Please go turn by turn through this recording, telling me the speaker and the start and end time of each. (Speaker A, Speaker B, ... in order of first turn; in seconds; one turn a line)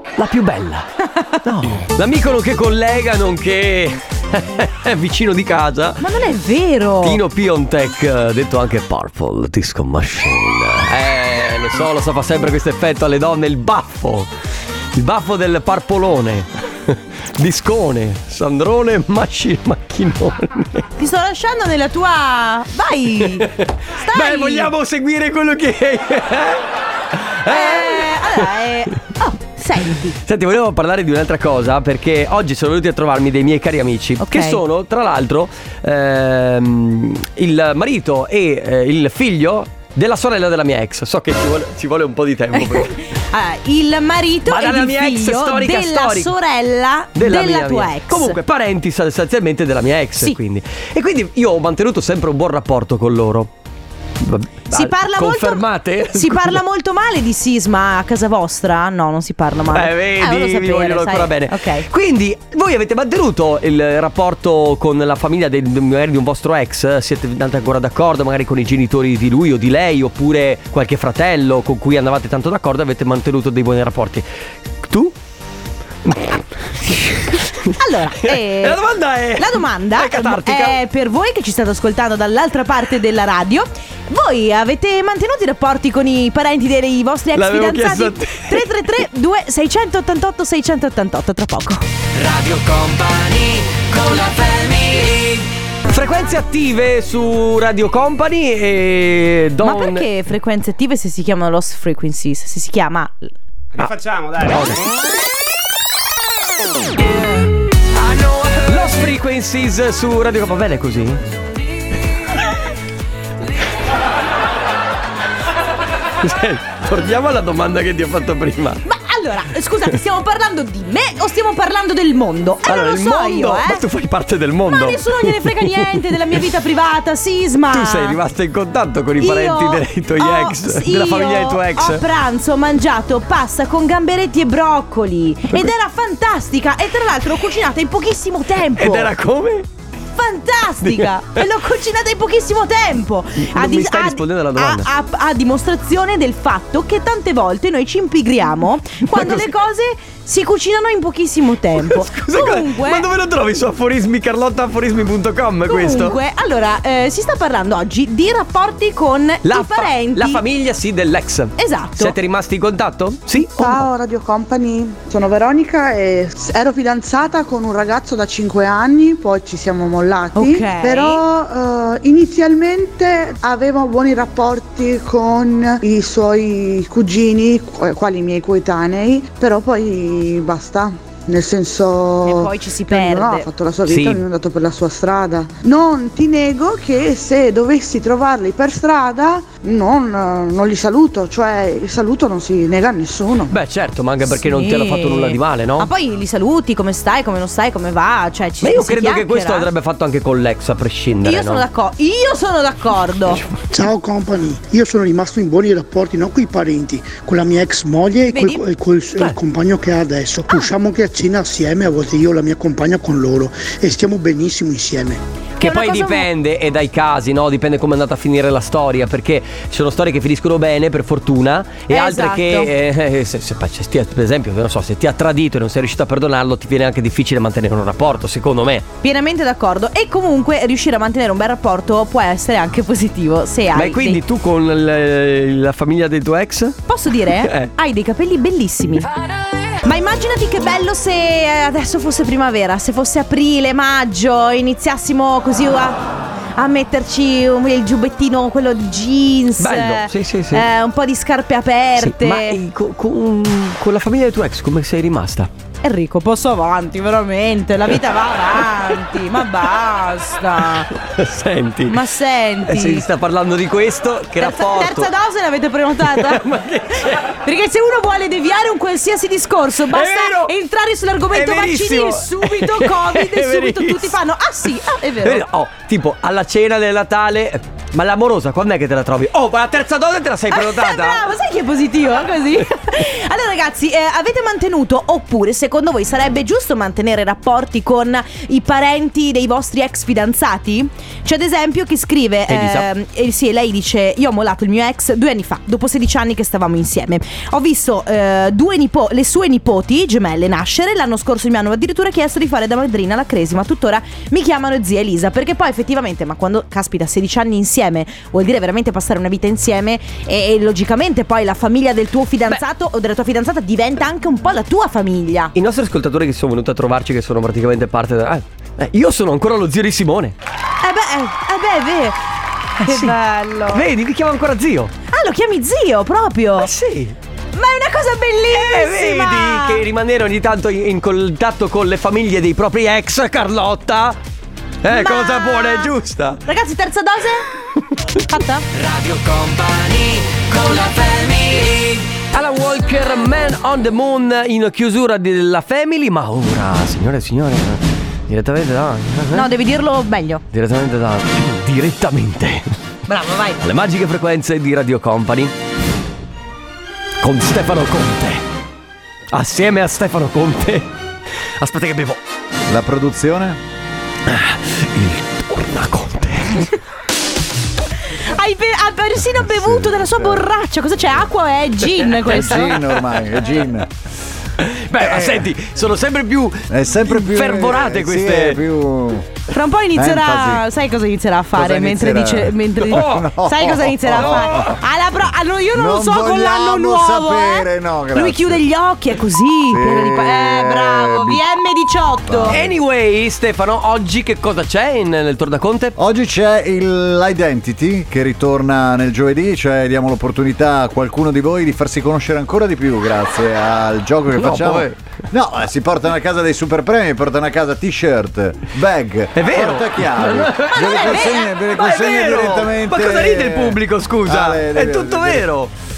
Speaker A: 0.1-6.1
Speaker B: 6.0-7.2
Speaker A: 7.0-14.3
Speaker A: 14.9-20.9
Speaker B: 21.0-24.7
Speaker A: 23.2-29.0
Speaker B: 27.4-30.2
Speaker A: 30.1-42.9
Speaker B: 34.2-34.6
Speaker B: 42.5-48.4
Speaker A: 44.5-46.3
Speaker A: 47.1-53.5
Speaker A: 54.2-56.6
Speaker B: 54.7-61.9
Speaker A: 59.7-74.2
Speaker A: 74.8-75.1
Speaker A: 76.0-80.8
Speaker B: 77.7-78.8
Speaker B: 79.3-91.8
Speaker A: 87.3-88.8
Speaker A: 92.2-100.1
Speaker B: 99.6-103.3
Speaker A: 103.8-104.9
Speaker A: 107.9-111.2
Speaker A: 116.2-118.8
Speaker B: 118.8-123.8
Speaker A: 122.6-126.4
Speaker B: 124.7-128.2
Speaker A: 127.7-132.0
Speaker B: 129.2-139.1
Speaker A: 138.7-139.7
Speaker B: 140.2-153.1
Speaker A: 140.8-141.4
Speaker A: 143.4-144.9
Speaker A: 149.1-149.5
Speaker A: 151.7-156.2
Speaker B: 155.7-160.4
Speaker A: 159.4-163.9
Speaker B: 161.6-162.1
Speaker C: 163.5-193.5
Speaker B: 170.3-171.2
Speaker B: 182.2-183.5
Speaker A: 183.8-184.2
Speaker A: 193.5-195.9
Speaker B: 194.2-199.7
Speaker A: 198.6-201.6
Speaker B: 201.2-203.4
Speaker A: 203.3-203.7
Speaker D: 203.7-215.2
Speaker B: 208.3-208.6
Speaker B: 215.6-216.3
Speaker A: 215.6-228.8
Speaker B: 221.9-222.7
Speaker B: 229.0-234.2
Speaker A: 233.7-237.7
Speaker B: 236.9-239.1
Speaker B: 239.8-246.0
Speaker B: 246.6-252.6
Speaker A: 249.6-250.7
Speaker A: 252.0-255.5
Speaker B: 255.8-260.9
Speaker A: 260.9-262.1
Speaker B: 261.9-263.1
Speaker A: 262.6-265.1
Speaker B: 264.4-266.4
Speaker A: 266.0-267.4
Speaker B: 267.2-275.4
Speaker A: 269.9-270.5
Speaker A: 271.3-274.2
Speaker A: 275.2-281.3
Speaker B: 280.5-315.5
Speaker A: 292.5-292.9
Speaker A: 315.5-320.4
Speaker B: 320.8-322.2
Speaker A: 322.8-323.2
Speaker B: 322.8-323.9
Speaker A: 323.7-324.9
Speaker B: 325.1-326.7
Speaker A: 326.6-327.1
Speaker B: 327.5-329.8
Speaker A: 328.5-334.2
Speaker A: 334.8-336.4
Speaker B: 334.9-335.9
Speaker B: 336.4-337.5
Speaker B: 338.3-338.6
Speaker A: 338.7-349.5
Speaker B: 349.3-350.4
Speaker A: 350.5-352.8
Speaker B: 353.1-353.6
Speaker A: 353.6-355.5
Speaker A: 357.2-358.4
Speaker A: 359.3-360.9
Speaker A: 361.6-362.2
Speaker E: 362.7-363.6
Speaker A: 364.2-366.8
Speaker B: 368.1-373.0
Speaker E: 369.1-370.5
Speaker E: 372.1-373.9
Speaker A: 374.6-378.6
Speaker E: 375.0-375.5
Speaker E: 376.7-379.3
Speaker B: 379.5-392.6
Speaker E: 379.9-380.6
Speaker E: 381.5-384.8
Speaker A: 382.8-384.8
Speaker E: 385.7-388.6
Speaker E: 389.7-391.4
Speaker E: 392.3-392.7
Speaker A: 392.5-395.9
Speaker E: 395.9-415.5
Speaker A: 404.3-404.9
Speaker A: 409.3-415.7
Speaker B: 410.7-411.5